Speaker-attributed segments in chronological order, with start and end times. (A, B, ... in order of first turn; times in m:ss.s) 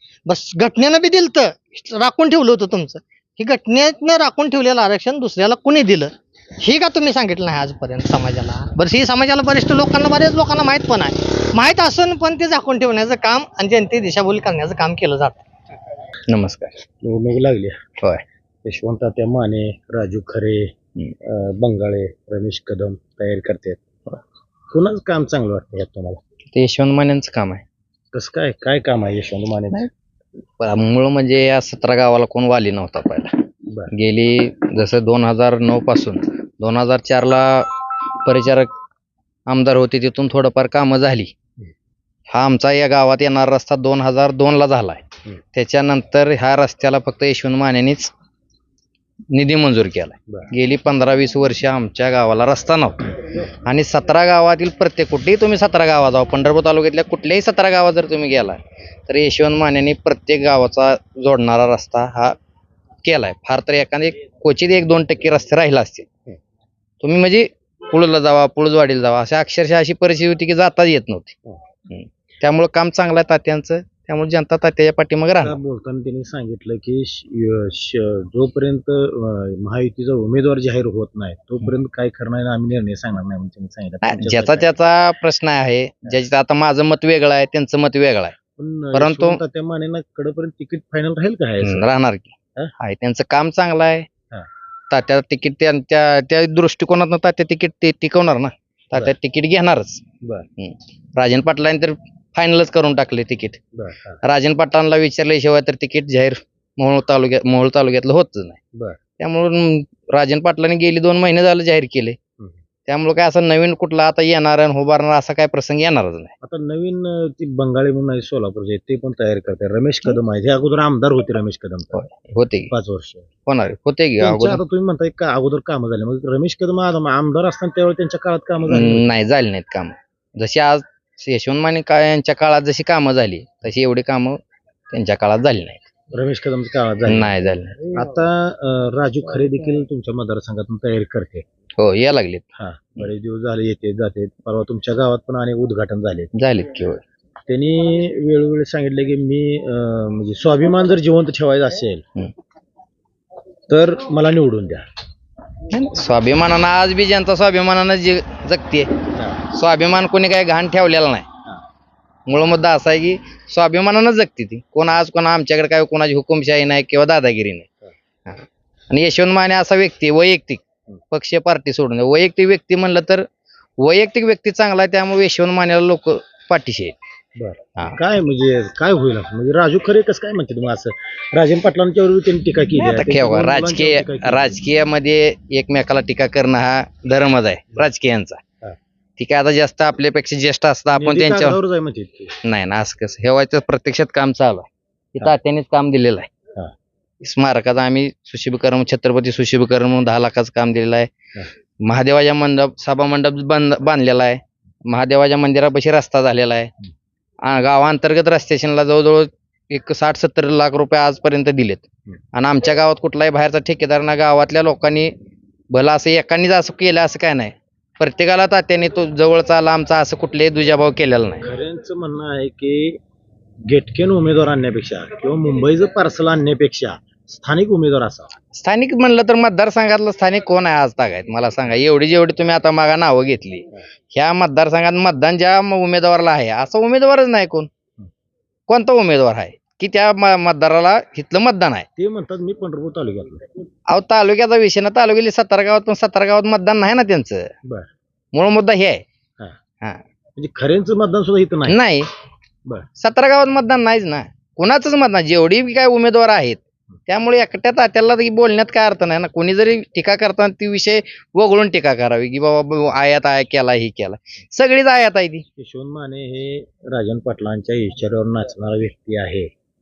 0:00.3-0:15.4 A
0:16.3-0:16.8 B
0:17.0-0:17.8 C
0:18.6-0:20.7 C
0:21.2-0:23.8 C
0:24.7-0:26.2 C
0:26.5-0:27.6 B
0:28.1-0:29.9 C
0:30.6-0:33.3 B
0:33.9-0:37.7 B
0:38.2-0:38.7 B
0:39.5-0:41.3 B
0:42.3-0:48.1 B
0:49.3-0:53.1 B
0:53.6-1:02.4 B
1:03.0-1:06.1 B
1:07.0-1:11.4 B
1:11.9-1:15.6 B
1:15.4-1:24.7 C
1:24.0-1:28.4 B
1:28.6-1:31.8 C
1:28.9-1:29.4 B
1:31.6-1:34.1 B
1:34.9-1:40.0 B
1:40.6-1:43.6 B
1:43.8-1:44.2 C
1:44.2-1:48.6 B
1:49.2-1:52.2 B
1:52.9-1:56.3 B
1:56.4-2:02.0 C
2:01.9-2:02.7 B
2:02.7-2:03.3 C
2:03.5-2:04.6 B
2:04.2-2:09.0 C
2:08.7-2:14.4 B
2:14.9-2:15.9 B
2:16.1-2:21.4 C
2:17.1-2:17.7 B
2:21.8-2:22.4 B
2:22.6-2:26.3 C
2:26.3-2:27.0 B
2:27.5-2:32.0 C
2:33.7-2:34.8 C
2:35.7-2:38.9 B
2:39.1-2:39.4 C
2:39.5-2:41.3 B
2:42.3-2:47.7 B
2:48.3-2:53.2 B
2:53.8-2:56.9 B
2:57.4-3:04.6 C
3:02.8-3:08.4 B
3:09.2-3:11.6 B
3:10.9-3:12.3 C
3:12.4-3:16.3 B
3:17.2-3:21.1 B
3:21.8-3:26.7 B
3:27.4-3:35.1 B
3:35.7-3:41.4 B
3:41.4-3:43.0 C
3:43.7-3:48.3 C
3:48.6-3:57.7 B
3:58.7-4:01.9 B
4:02.0-4:03.4 C
4:03.9-4:07.5 B
4:08.3-4:09.0 B
4:10.4-4:11.8 C
4:11.7-4:12.1 B
4:13.0-4:25.4 B
4:25.6-4:29.5 C